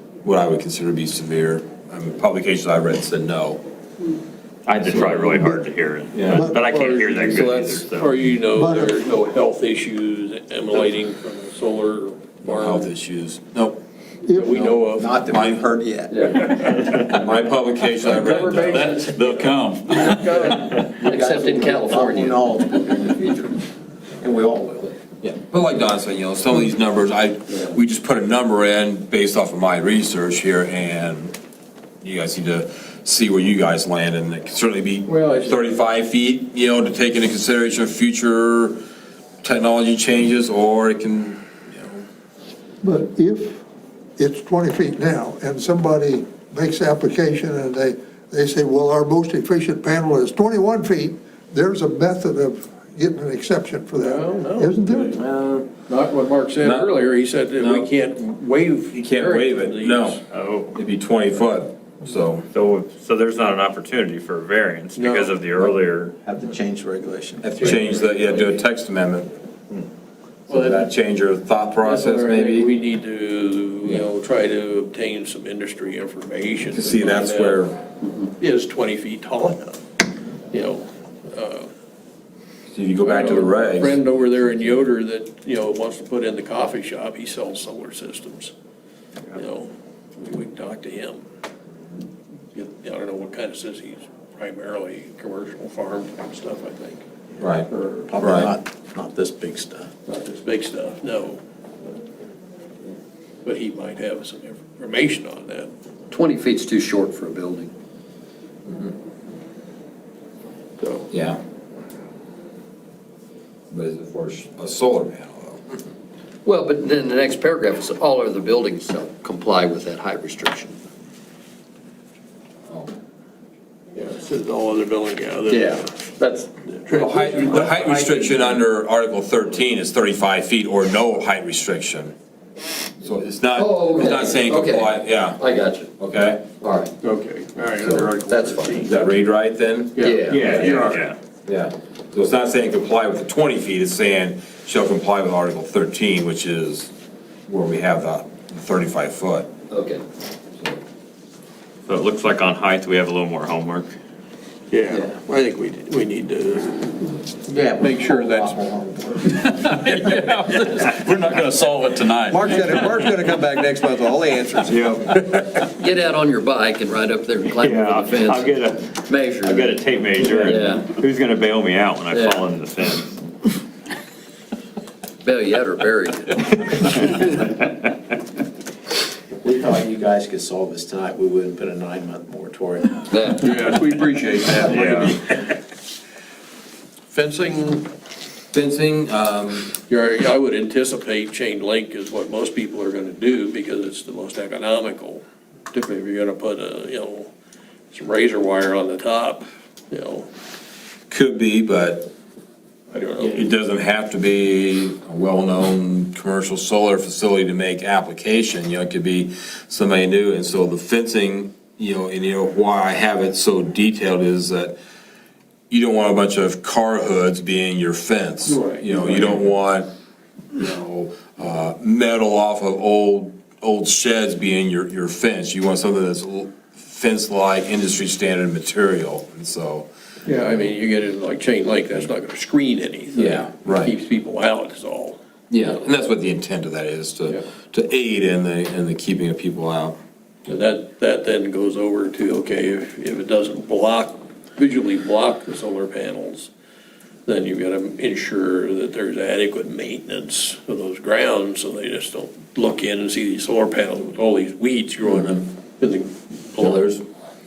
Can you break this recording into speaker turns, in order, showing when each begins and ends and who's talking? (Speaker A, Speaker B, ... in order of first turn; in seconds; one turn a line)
Speaker A: 0.2-3.6
Speaker B: 4.7-8.2
Speaker C: 5.0-5.6
Speaker A: 6.1-6.5
Speaker C: 6.3-6.6
Speaker D: 6.6-12.9
Speaker C: 8.5-9.0
Speaker A: 12.4-13.8
Speaker C: 14.2-14.7
Speaker D: 14.3-15.4
Speaker E: 14.8-16.4
Speaker A: 15.3-15.6
Speaker F: 16.1-16.5
Speaker A: 16.9-19.0
Speaker F: 18.0-20.2
Speaker G: 19.0-20.0
Speaker D: 19.8-21.1
Speaker E: 20.9-23.6
Speaker F: 20.9-22.9
Speaker E: 24.2-25.0
Speaker A: 25.2-31.3
Speaker A: 32.0-38.8
Speaker D: 35.0-35.6
Speaker A: 39.4-42.0
Speaker C: 42.8-43.6
Speaker C: 44.2-55.2
Speaker D: 54.0-55.2
Speaker A: 55.1-55.7
Speaker D: 55.9-60.2
Speaker A: 56.6-56.9
Speaker A: 57.6-57.9
Speaker A: 58.9-60.2
Speaker B: 60.3-60.7
Speaker A: 60.7-62.5
Speaker B: 62.5-66.1
Speaker D: 65.0-65.4
Speaker E: 66.2-67.9
Speaker A: 67.4-69.3
Speaker D: 67.6-68.5
Speaker D: 70.5-70.9
Speaker A: 70.5-72.7
Speaker D: 71.8-77.6
Speaker A: 76.7-77.8
Speaker D: 78.4-79.8
Speaker D: 80.5-81.7
Speaker A: 82.7-84.0
Speaker D: 83.0-88.5
Speaker D: 89.3-91.2
Speaker D: 92.5-97.0
Speaker A: 97.4-97.7
Speaker D: 97.7-98.1
Speaker E: 98.1-99.9
Speaker A: 98.2-98.5
Speaker D: 100.1-101.4
Speaker D: 103.4-105.7
Speaker F: 106.1-107.7
Speaker D: 110.8-111.1
Speaker A: 111.1-111.4
Speaker A: 113.7-115.8
Speaker F: 116.4-120.8
Speaker D: 123.9-126.0
Speaker F: 125.5-127.2
Speaker D: 126.7-128.2
Speaker A: 126.9-132.1
Speaker A: 133.0-135.4
Speaker F: 133.5-135.9
Speaker A: 136.0-136.5
Speaker F: 136.6-136.9
Speaker D: 137.0-138.9
Speaker A: 137.8-138.1
Speaker F: 138.1-138.9
Speaker A: 138.8-140.7
Speaker D: 139.9-141.0
Speaker F: 140.0-140.9
Speaker B: 140.3-141.2
Speaker A: 141.4-146.9
Speaker A: 147.5-149.5
Speaker F: 149.7-150.0
Speaker B: 151.9-153.9
Speaker D: 154.7-157.2
Speaker E: 157.5-159.4
Speaker D: 157.8-158.6
Speaker D: 159.4-160.9
Speaker G: 161.1-162.7
Speaker D: 162.5-162.9
Speaker E: 162.8-164.7
Speaker B: 164.7-165.0
Speaker F: 165.8-170.9
Speaker B: 167.6-173.2
Speaker F: 172.1-172.5
Speaker F: 175.2-176.7
Speaker B: 177.4-177.7
Speaker E: 179.4-183.1
Speaker F: 183.1-183.5
Speaker D: 183.4-185.5
Speaker B: 184.7-185.1
Speaker D: 187.1-187.9
Speaker A: 188.5-189.7
Speaker D: 189.9-197.3
Speaker D: 197.9-200.3
Speaker A: 201.1-202.1
Speaker D: 202.9-203.4
Speaker A: 203.2-214.8
Speaker A: 215.7-219.9
Speaker D: 218.4-219.4
Speaker A: 220.5-229.9
Speaker D: 230.2-235.8
Speaker A: 233.1-233.9
Speaker A: 235.5-240.0
Speaker D: 240.4-246.5
Speaker D: 247.2-256.9
Speaker A: 255.1-255.4
Speaker A: 256.6-257.0